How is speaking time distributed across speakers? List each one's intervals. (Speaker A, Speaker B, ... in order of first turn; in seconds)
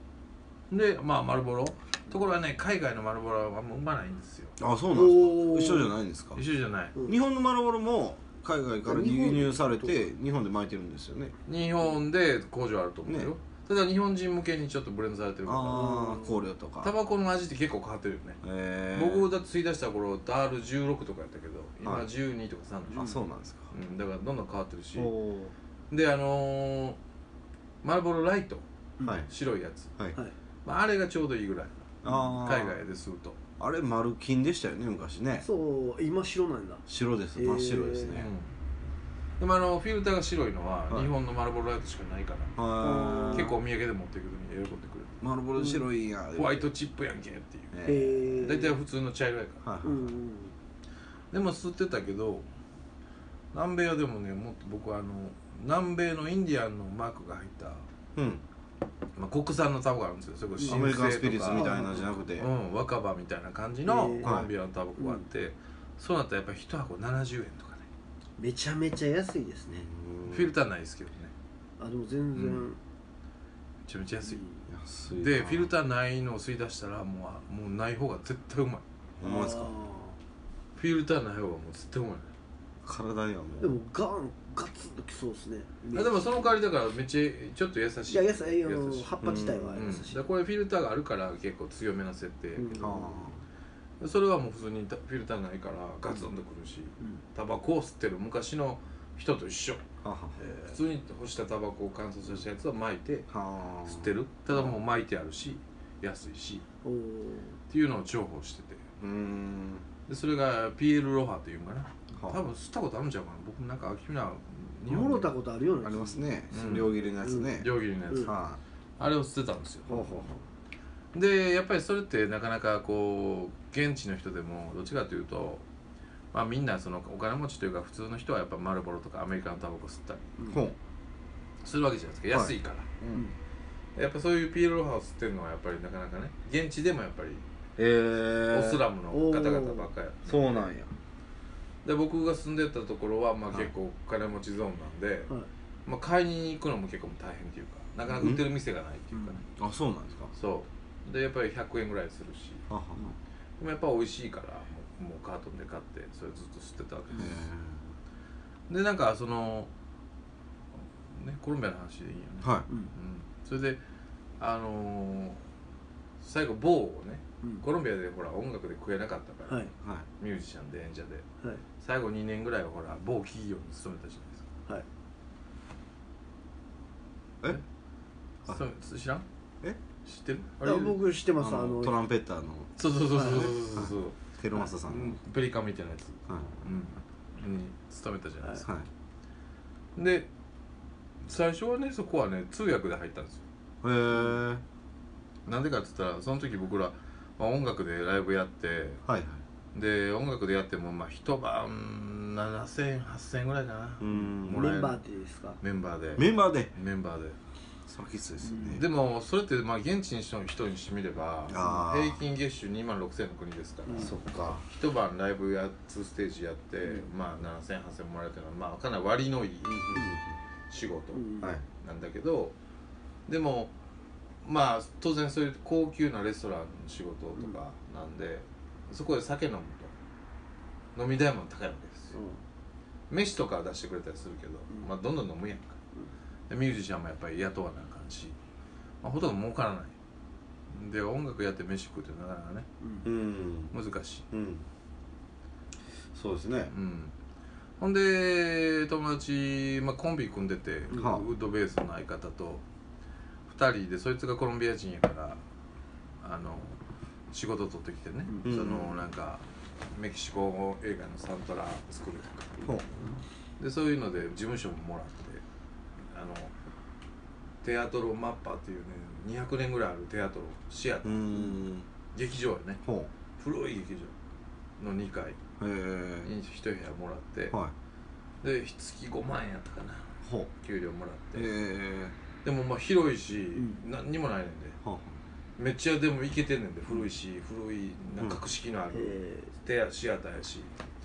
Speaker A: 0.7-4.6, 6.4-7.0, 11.5-16.1, 16.8-18.4, 18.9-23.2, 23.7-25.1, 25.9-27.0, 27.8-28.6, 29.3-29.9, 30.6-33.4, 38.1-38.5, 39.4-42.5, 43.3-45.2, 46.3-49.6, 51.3-52.5, 53.5-57.9, 59.2-61.7, 62.4-67.9, 70.3-71.3, 72.3-72.7, 73.8-74.4, 75.1-78.8, 80.8-82.3, 85.9-89.2, 89.8-92.9, 94.0-99.8, 100.4-103.3, 103.8-106.7, 107.7-108.8, 110.1-115.3, 116.5-117.0, 117.5-118.4, 119.0-120.2, 121.1-125.7, 126.3-130.4, 131.6-132.9, 133.9-137.4, 138.5-140.7, 141.8-145.3, 145.9-149.4, 150.3-152.7, 153.6-157.5, 158.7-159.7, 161.1-163.8, 164.4-165.4, 166.2-171.3, 171.8-174.5, 178.5-179.3, 180.1-180.9, 182.8-184.2, 184.8-188.7, 190.0-190.3, 191.2-193.4, 195.5-199.0, 199.7-205.0, 205.6-207.4, 208.7-220.1, 220.7-222.6, 223.3-223.7, 224.4-229.9, 230.9-232.2, 233.1-235.8, 236.5-238.4, 239.0-239.9, 240.7-242.7, 243.7-244.3, 246.7-247.1, 247.8-252.7, 253.5-255.4, 256.2-256.8, 257.3-262.7, 263.6-265.4, 266.1-266.5, 267.6-271.5, 272.1-272.8, 273.4-274.1, 274.8-275.4, 276.2-277.6, 278.4-281.5, 282.4-284.8, 285.6-290.7
Speaker B: 4.6-6.4, 7.0-11.3, 13.1-13.3, 15.5-16.9, 18.4-19.3, 22.9-23.7, 24.9-25.5, 29.0-29.3, 32.0-32.8, 33.6-35.5, 36.9-38.3, 42.6-43.6, 45.2-46.7, 47.7-48.1, 49.6-50.1, 58.1-58.4, 60.6-62.5, 64.2-64.5, 69.9-70.5, 74.7-75.7, 79.2-79.7, 82.8-83.8, 89.2-89.8, 92.8-93.4, 100.0-100.4, 103.3-104.8, 109.0-109.9, 115.8-118.6, 119.9-120.4, 130.5-130.8, 132.3-133.3, 137.8-138.8, 140.3-140.9, 148.1-148.4, 149.6-150.3, 152.7-153.1, 157.2-157.9, 181.4-185.2, 186.3-186.6, 188.6-188.9, 193.8-194.6, 199.1-199.4, 204.0-204.8, 206.2-206.7, 207.9-208.9, 211.5-212.2, 214.0-214.6, 219.7-220.3, 243.0-243.7, 244.3-244.7, 246.1-246.7, 250.9-251.3, 258.4-259.0, 271.0-271.9, 272.8-273.1, 275.6-276.3, 280.2-280.5, 281.4-282.2, 284.8-285.2
Speaker C: 4.9-5.9, 8.8-10.0, 15.7-16.4, 35.4-36.9, 37.4-38.1, 42.8-43.5, 45.6-45.9, 47.9-48.8, 49.8-50.5, 60.6-60.9, 61.5-62.1, 63.9-64.3, 65.0-65.2, 68.4-69.9, 71.8-72.8, 74.3-74.6, 79.2-80.2, 83.6-86.5, 88.1-90.2, 92.6-93.2, 106.8-107.6, 114.9-116.2, 117.2-117.5, 139.1-139.9, 149.1-149.4, 169.5-169.7, 180.6-182.0, 183.1-183.5, 204.5-205.6, 208.4-208.8, 213.9-214.1, 221.1-221.5, 232.1-232.4, 258.3-258.5, 288.9-289.5